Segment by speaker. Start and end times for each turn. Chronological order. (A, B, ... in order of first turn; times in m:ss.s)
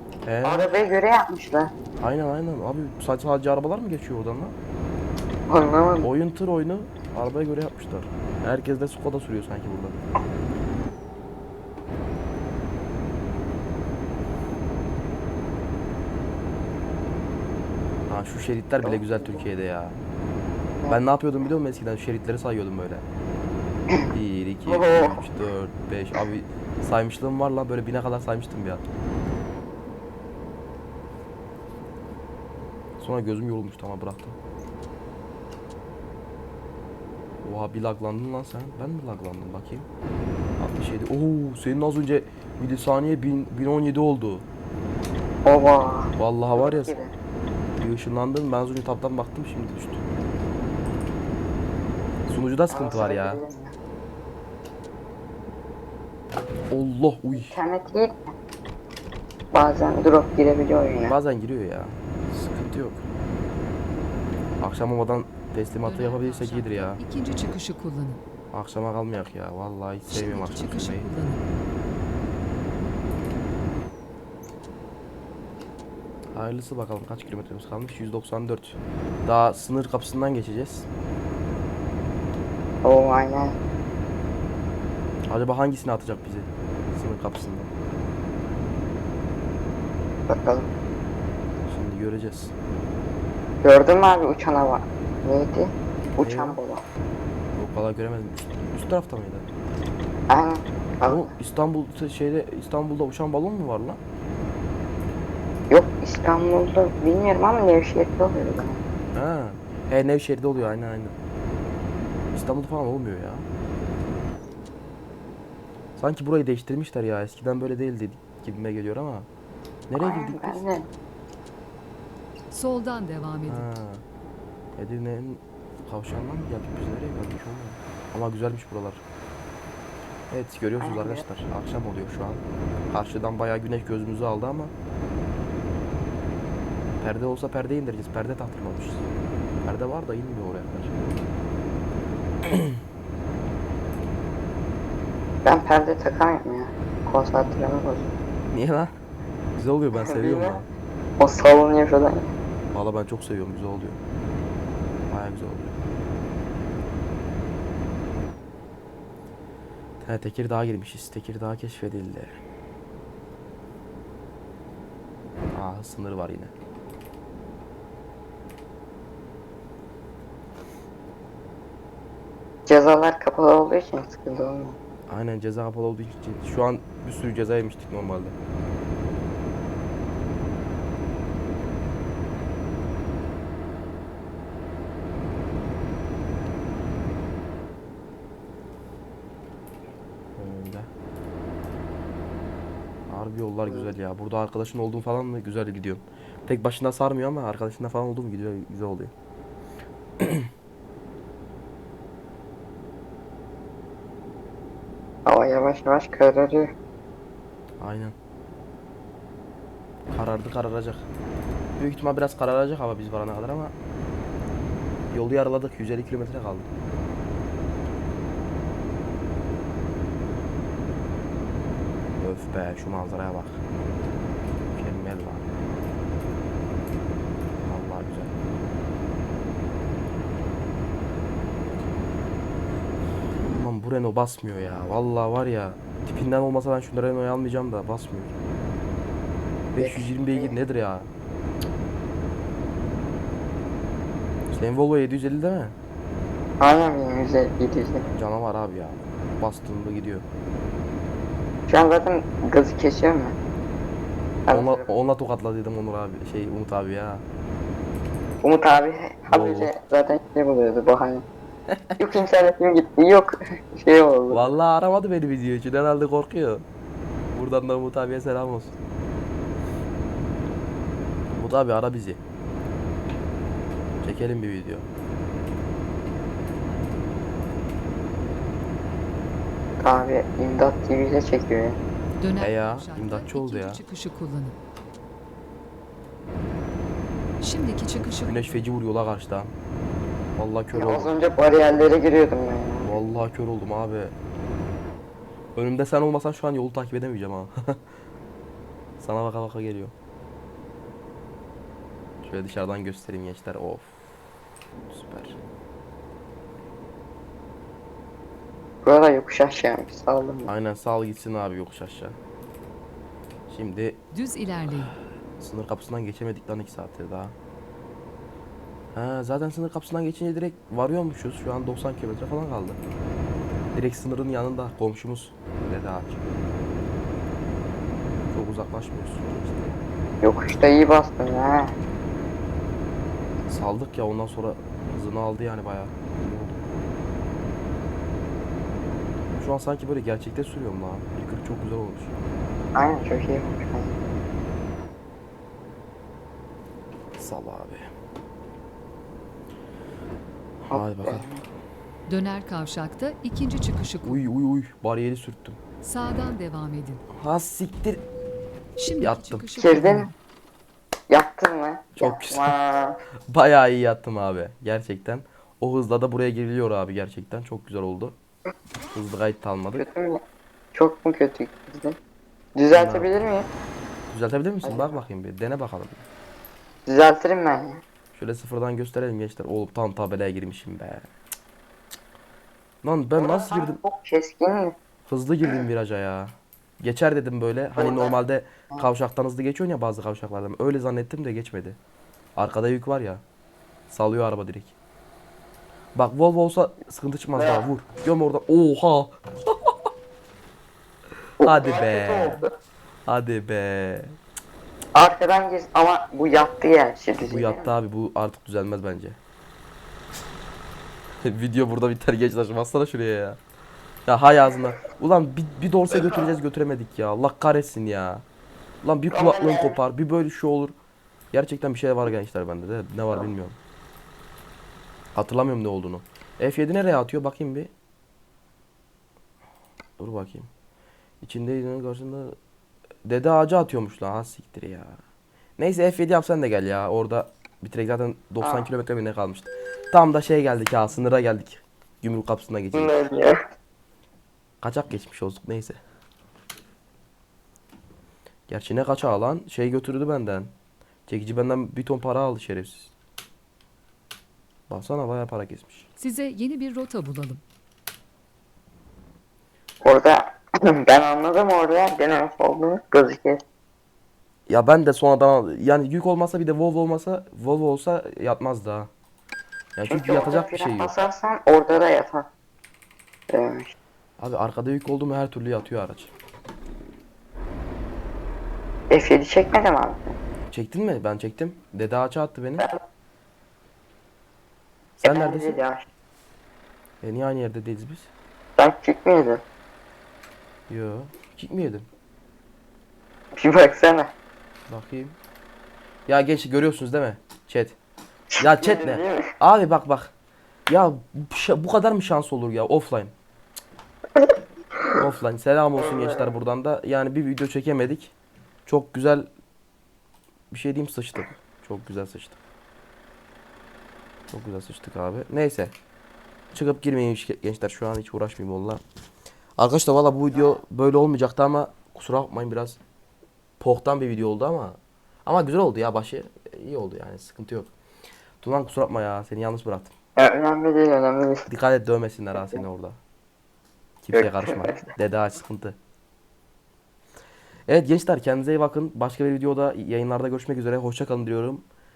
0:00.2-0:00.7 A
0:00.4-0:01.7 B
0:02.0-0:04.6 A
0:05.5-0:06.1 B
0:06.0-0:10.0 A
0:18.1-0:20.0 A
0:18.8-0:19.5 B
0:20.9-0:23.0 A
0:24.1-0:28.8 A
0:24.7-0:25.2 B
0:33.0-0:34.4 A
0:37.4-0:39.9 A
0:40.6-0:44.4 A
0:45.4-0:47.2 B
0:46.2-0:46.9 A
0:47.8-0:50.1 A
0:52.3-0:53.4 A
0:52.7-0:53.7 B
0:56.7-0:57.6 A
0:57.3-0:58.2 B
0:59.5-1:01.2 B
1:01.1-1:03.0 A
1:04.6-1:07.0 A
1:05.8-1:08.2 C
1:08.5-1:11.1 A
1:10.1-1:11.4 C
1:16.3-1:20.9 A
1:22.8-1:23.6 B
1:25.3-1:27.7 A
1:30.3-1:30.7 B
1:31.7-1:32.5 A
1:33.6-1:36.8 B
1:36.2-1:36.6 A
1:37.5-1:39.5 A
1:40.3-1:41.3 B
1:41.1-1:44.0 A
1:45.7-1:48.8 B
1:49.1-1:51.2 A
1:52.3-1:53.5 A
1:56.0-1:59.3 A
1:59.9-2:00.6 A
2:00.0-2:00.9 B
2:02.5-2:03.7 C
2:03.5-2:04.0 A
2:04.8-2:09.0 A
2:10.3-2:14.7 A
2:10.8-2:11.2 B
2:17.0-2:19.0 A
2:19.6-2:20.9 A
2:25.4-2:28.1 B
2:28.5-2:28.9 A
2:29.6-2:30.7 A
2:29.9-2:30.6 B
2:31.2-2:32.3 B
2:32.7-2:34.0 A
2:35.1-2:35.8 A
2:40.0-2:42.4 A
2:45.5-2:46.5 A
2:52.7-2:54.8 B
2:55.1-2:58.4 A
3:10.4-3:10.9 A
3:13.1-3:19.1 A
3:20.2-3:20.5 A
3:25.3-3:26.7 B
3:27.8-3:28.2 A
3:30.1-3:31.0 A
3:31.8-3:33.7 A
3:35.1-3:36.7 A
3:42.2-3:43.6 A
3:44.8-3:45.6 A
3:47.6-3:48.4 A
3:53.5-3:58.3 A
3:59.7-4:01.1 A
3:59.8-4:00.6 B
4:04.5-4:05.8 A
4:06.6-4:08.1 B
4:08.1-4:10.3 A
4:11.7-4:13.4 B
4:14.5-4:14.9 B
4:14.5-4:17.2 A
4:18.4-4:21.2 B
4:19.3-4:19.7 A
4:21.7-4:22.0 A
4:22.0-4:24.5 B
4:24.3-4:26.6 A
4:27.3-4:28.8 A
4:31.4-4:32.2 A
4:34.0-4:34.9 A
4:39.8-4:41.8 B
4:42.2-4:44.6 C
4:42.4-4:43.8 A
4:47.4-4:48.6 C
4:48.0-4:49.5 A
4:50.4-4:51.1 A
4:50.7-4:53.1 B
4:52.8-4:54.1 A
4:55.6-4:57.8 A
4:59.0-4:59.9 A
5:02.2-5:04.0 A
5:04.9-5:05.4 A
5:08.8-5:10.5 B
5:10.5-5:12.2 A
5:13.5-5:14.0 A
5:14.1-5:14.9 C
5:15.4-5:17.4 A
5:18.9-5:22.8 A
5:23.7-5:26.2 A
5:28.3-5:29.8 A
5:30.2-5:31.7 B
5:33.5-5:36.6 A
5:39.4-5:42.1 A
5:42.8-5:44.0 B
5:47.2-5:47.9 A
5:50.7-5:51.3 A
5:50.7-5:51.4 B
5:52.1-5:54.2 C
5:54.0-5:55.6 A
5:55.8-5:57.0 C
5:57.2-5:58.0 A
5:58.8-6:00.1 C
5:59.0-5:59.5 A
5:59.6-6:00.1 B
6:01.1-6:03.0 B
6:02.0-6:02.6 A
6:03.3-6:08.2 A
6:08.9-6:09.8 A
6:09.8-6:10.2 B
6:10.7-6:12.0 B
6:12.6-6:13.5 B
6:12.7-6:13.2 A
6:14.1-6:16.0 A
6:14.6-6:15.0 B
6:16.9-6:17.8 B
6:18.1-6:21.1 A
6:22.8-6:23.8 A
6:23.2-6:24.7 B
6:25.1-6:31.8 A
6:27.8-6:28.2 B
6:32.4-6:33.2 A
6:33.9-6:34.8 A
6:36.0-6:39.8 A
6:37.4-6:37.7 B
6:41.4-6:42.5 B
6:41.4-6:42.4 A
6:43.1-6:44.2 A
6:44.9-6:47.7 B
6:47.2-6:49.2 A
6:51.2-6:53.4 A
6:54.1-6:58.2 A
6:56.0-6:56.3 B
6:58.8-7:00.8 A
6:59.1-6:59.8 B
7:01.3-7:03.6 A
7:05.1-7:07.7 A
7:10.0-7:10.5 A
7:11.2-7:12.4 A
7:13.1-7:15.0 A
7:15.6-7:22.9 A
7:18.4-7:18.7 B
7:22.7-7:23.4 B
7:24.6-7:25.8 A
7:28.5-7:30.5 A
7:31.1-7:32.9 A
7:34.7-7:35.9 A
7:36.0-7:37.4 C
7:39.8-7:43.4 B
7:44.5-7:48.9 A
7:49.8-7:50.9 A
7:49.9-7:52.3 B
7:53.3-7:53.8 B
7:54.2-7:56.1 A
7:58.9-8:00.2 B
8:00.5-8:02.7 A
8:05.0-8:05.6 A
8:05.0-8:05.9 B
8:07.0-8:08.1 A
8:08.6-8:09.4 B
8:10.7-8:11.9 A
8:13.4-8:14.1 B
8:14.7-8:15.2 A
8:16.1-8:17.8 A
8:18.3-8:19.3 B
8:18.4-8:20.1 A
8:20.7-8:23.1 A
8:25.0-8:28.1 A
8:28.7-8:29.3 A
8:30.5-8:32.4 A
8:34.3-8:35.7 A
8:36.5-8:38.8 A
8:39.6-8:42.8 A
8:43.6-8:47.7 A
8:48.4-8:49.9 A
8:50.2-8:51.5 B
8:51.5-8:53.0 A
8:54.0-8:55.8 A
8:54.1-8:54.8 B
8:57.7-9:01.7 A